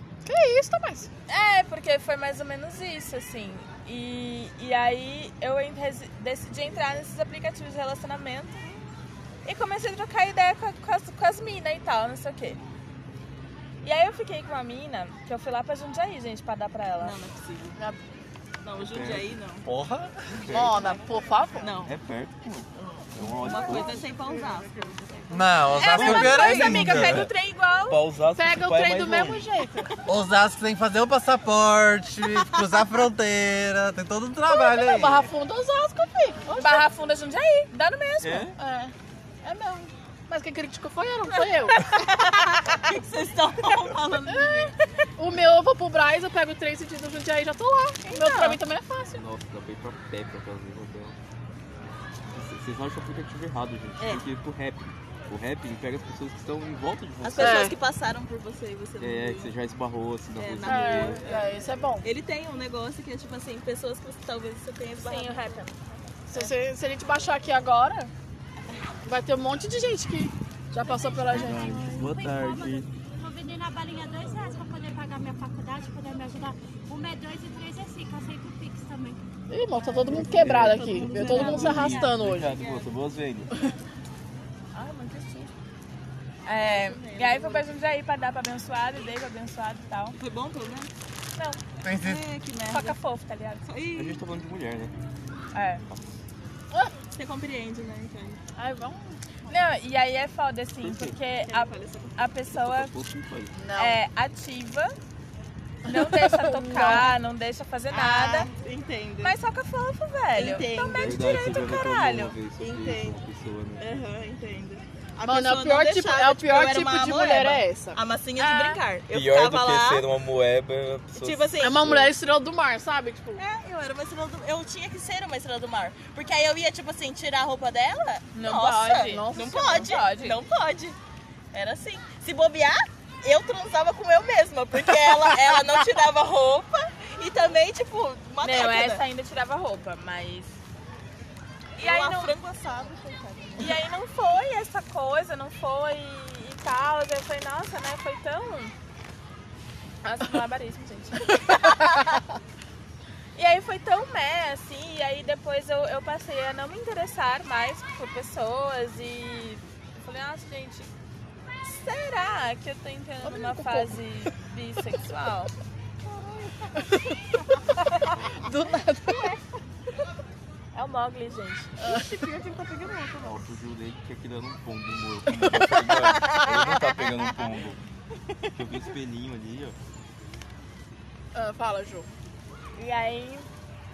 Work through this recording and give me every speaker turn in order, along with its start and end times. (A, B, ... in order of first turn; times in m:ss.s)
0:00.2-0:01.1 A
0:01.3-0:08.6 B
0:09.4-0:12.6 B
0:13.8-0:17.2 B
0:17.0-0:17.8 C
0:18.6-0:19.6 C
0:18.8-0:19.3 D
0:19.6-0:20.2 E
0:20.3-0:20.7 D
0:20.4-0:20.9 C
0:20.5-0:21.7 A
0:21.6-0:21.9 C
0:21.8-0:24.0 D
0:22.8-0:25.7 C
0:25.3-0:27.3 E
0:25.7-0:28.0 B
0:25.9-0:27.3 D
0:27.9-0:29.5 D
0:28.4-0:29.9 A
0:30.0-0:35.3 E
0:34.5-0:36.8 A
0:36.6-0:38.5 B
0:38.2-0:38.6 D
0:38.6-0:42.0 A
0:41.8-0:44.7 C
0:44.3-0:49.2 A
0:48.1-0:48.6 B
0:49.1-0:51.2 D
0:52.3-0:57.7 D
0:57.2-0:59.5 C
0:57.4-0:57.7 A
0:59.0-1:01.2 D
1:00.4-1:01.5 C
1:00.6-1:02.1 A
1:02.0-1:05.8 C
1:05.0-1:05.7 B
1:06.3-1:08.1 A
1:09.0-1:11.6 A
1:10.8-1:19.2 F
1:11.3-1:12.9 D
1:19.5-1:22.5 A
1:19.8-1:22.0 F
1:20.1-1:23.5 D
1:21.0-1:22.9 C
1:24.7-1:25.5 B
1:26.4-1:30.2 B
1:26.6-1:27.7 C
1:30.2-1:30.9 C
1:31.4-1:31.6 B
1:31.8-1:32.2 E
1:31.9-1:33.0 C
1:32.7-1:33.6 B
1:33.6-1:34.2 C
1:33.9-1:34.9 D
1:35.5-1:35.8 B
1:37.2-1:38.4 C
1:38.6-1:39.2 A
1:39.5-1:42.9 B
1:40.8-1:41.2 D
1:41.4-1:42.2 C
1:42.5-1:43.5 D
1:43.5-1:44.0 A
1:43.8-1:44.9 B
1:45.8-1:47.1 A
1:45.8-1:48.5 B
1:47.9-1:49.4 C
1:49.2-1:52.3 B
1:50.3-1:51.2 C
1:51.0-1:53.8 D
1:52.6-1:53.2 C
1:53.8-2:00.0 C
1:55.3-1:58.0 A
1:58.4-1:58.8 B
1:59.1-2:02.1 D
2:01.1-2:02.0 C
2:01.6-2:03.4 A
2:03.4-2:11.0 C
2:08.3-2:10.4 B
2:09.0-2:09.9 A
2:11.5-2:19.0 C
2:18.4-2:20.6 B
2:21.8-2:22.3 B
2:21.8-2:23.8 C
2:23.6-2:28.7 B
2:30.0-2:32.0 B
2:33.3-2:40.9 B
2:41.6-2:45.5 B
2:43.2-2:44.0 A
2:46.8-2:47.1 A
2:47.7-2:49.4 A
2:50.7-2:51.8 B
2:51.8-2:52.3 A
2:51.8-2:53.5 C
2:53.2-2:57.8 D
2:55.6-2:56.6 A
2:58.5-2:59.8 D
3:01.3-3:02.1 A
3:02.8-3:03.5 B